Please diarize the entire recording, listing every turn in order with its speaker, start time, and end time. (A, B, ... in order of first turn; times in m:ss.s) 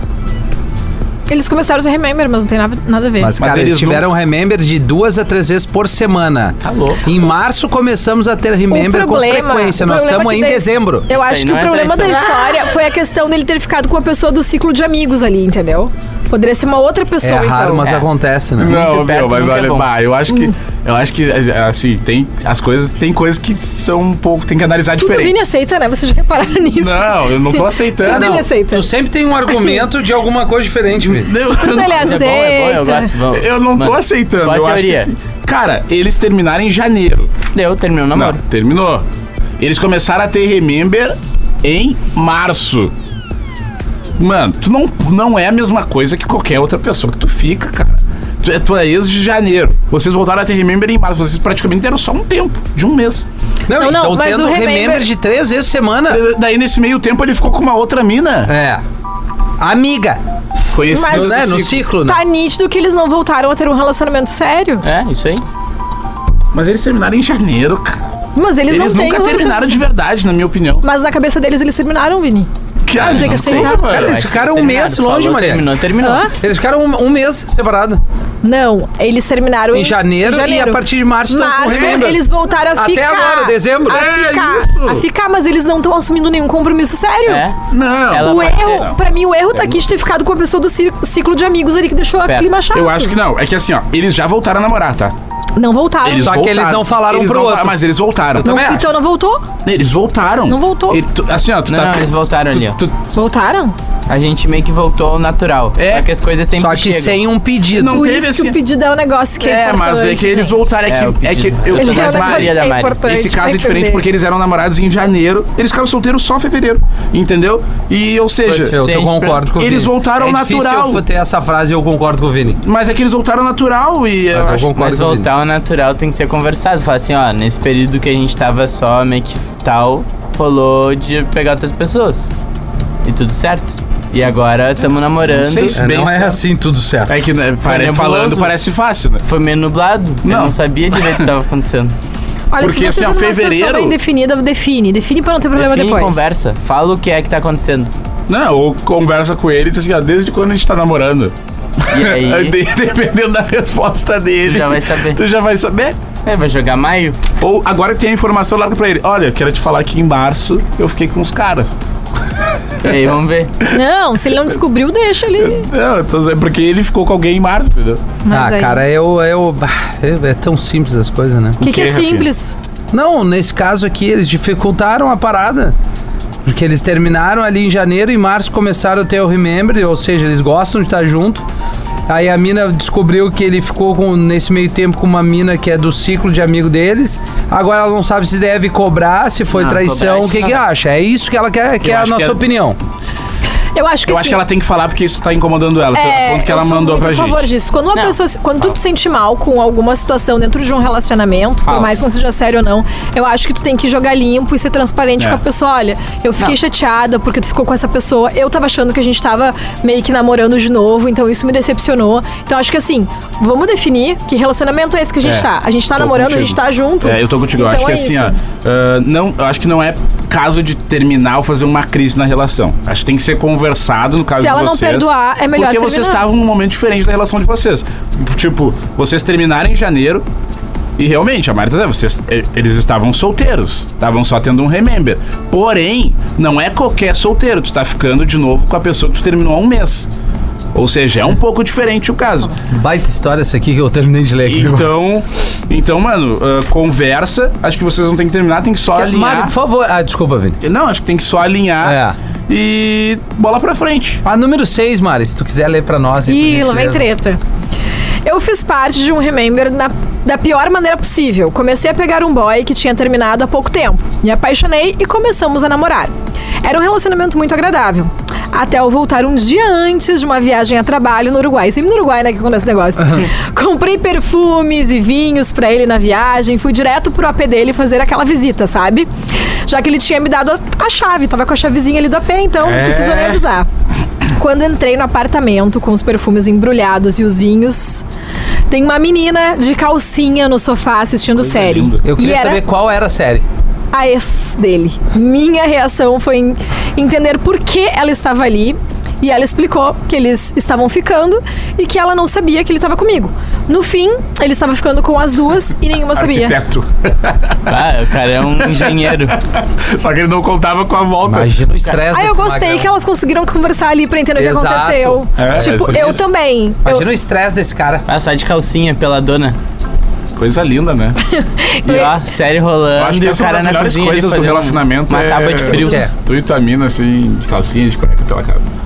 0:01.3-0:03.3 A
0:03.2-0:11.1 B
0:03.4-0:04.1 C
0:06.6-0:07.0 D
0:08.7-0:17.9 A
0:11.1-0:12.3 D
0:17.2-0:18.9 B
0:18.6-0:25.4 C
0:18.6-0:19.9 D
0:25.0-0:28.9 A
0:26.8-0:28.4 C
0:28.0-0:31.3 B
0:29.5-0:29.8 A
0:31.0-0:32.4 C
0:31.6-0:33.1 A
0:32.0-0:35.1 D
0:33.3-0:37.3 C
0:37.5-0:38.4 D
0:38.2-0:39.0 C
0:39.6-0:42.9 C
0:44.2-0:53.3 C
0:53.7-0:56.2 B
0:53.8-0:55.1 A
0:56.1-0:58.5 C
0:58.5-0:58.8 B
0:59.6-1:00.2 B
1:00.7-1:01.8 C
1:00.9-1:01.4 A
1:01.0-1:02.2 B
1:01.9-1:04.8 A
1:04.8-1:05.4 D
1:06.5-1:08.0 C
1:08.4-1:09.8 A
1:08.7-1:10.8 C
1:10.8-1:12.5 A
1:12.9-1:14.1 C
1:13.0-1:16.3 D
1:13.0-1:14.0 A
1:13.7-1:15.7 B
1:16.0-1:16.3 A
1:16.3-1:18.0 B
1:18.4-1:27.5 A
1:19.7-1:22.2 B
1:21.7-1:22.2 C
1:22.7-1:24.1 B
1:23.9-1:25.0 C
1:27.3-1:27.6 D
1:27.7-1:29.0 C
1:28.1-1:28.9 D
1:28.2-1:33.1 A
1:29.5-1:29.8 C
1:32.3-1:32.6 D
1:32.7-1:35.1 C
1:35.6-1:36.4 A
1:36.0-1:38.5 C
1:36.2-1:37.8 B
1:38.4-1:38.9 B
1:38.4-1:39.4 A
1:39.6-1:43.0 C
1:40.5-1:41.0 A
1:41.7-1:42.8 D
1:43.1-1:43.8 A
1:44.1-1:47.2 D
1:45.8-1:46.1 C
1:46.6-1:48.1 B
1:47.7-1:48.6 C
1:47.9-1:50.7 A
1:49.4-1:58.8 C
1:50.9-1:53.0 D
1:51.7-1:54.0 A
1:58.4-1:59.4 D
1:58.6-2:02.6 B
1:59.6-2:01.0 C
2:02.6-2:04.7 C
2:04.3-2:05.3 B
2:04.7-2:12.3 D
2:13.0-2:15.8 D
2:15.3-2:16.4 C
2:15.8-2:17.2 B
2:17.1-2:19.2 C
2:17.6-2:18.5 D
2:19.2-2:22.0 D
2:20.2-2:21.1 C
2:22.5-2:26.3 A
2:22.6-2:24.0 C
2:25.6-2:27.9 D
2:28.3-2:36.0 C
2:31.9-2:32.6 D
2:34.5-2:35.2 D
2:36.2-2:37.2 D
2:37.4-2:41.7 C
2:42.8-2:43.5 D
2:43.7-2:45.7 A
2:45.4-2:48.0 C
2:48.2-2:48.8 A
2:48.3-2:51.6 B
2:51.6-2:52.3 C
2:51.6-2:52.5 A
2:52.9-2:55.8 B
2:56.4-3:01.4 B
3:02.1-3:12.8 B
3:09.5-3:10.6 D
3:11.8-3:12.4 C
3:13.8-3:14.4 A
3:14.1-3:17.5 C
3:15.9-3:38.4 A
3:21.6-3:22.0 C
3:35.2-3:50.2 C
3:44.4-3:46.2 A
3:51.0-4:00.1 C
4:00.7-4:02.6 C
4:02.7-4:04.9 B
4:04.5-4:09.5 C
4:09.0-4:10.6 B
4:10.6-4:14.2 C
4:11.8-4:12.2 B
4:14.2-4:17.1 B
4:16.3-4:17.4 A
4:18.2-4:26.1 A
4:26.6-4:39.1 A
4:39.7-4:43.7 A
4:42.6-4:43.4 C
4:44.3-4:48.0 A
4:48.7-4:52.6 A
4:51.3-4:52.0 C
4:52.0-4:53.4 B
4:53.9-5:06.6 A
5:06.1-5:07.7 C
5:07.7-5:09.4 D
5:08.6-5:11.6 C
5:11.2-5:12.9 B
5:12.1-5:17.1 A
5:14.4-5:16.3 B
5:15.4-5:16.2 C
5:16.8-5:18.1 B
5:18.1-5:19.6 D
5:20.4-5:21.2 C
5:21.3-5:22.2 A
5:21.9-5:26.1 D
5:23.0-5:28.6 C
5:25.7-5:26.1 B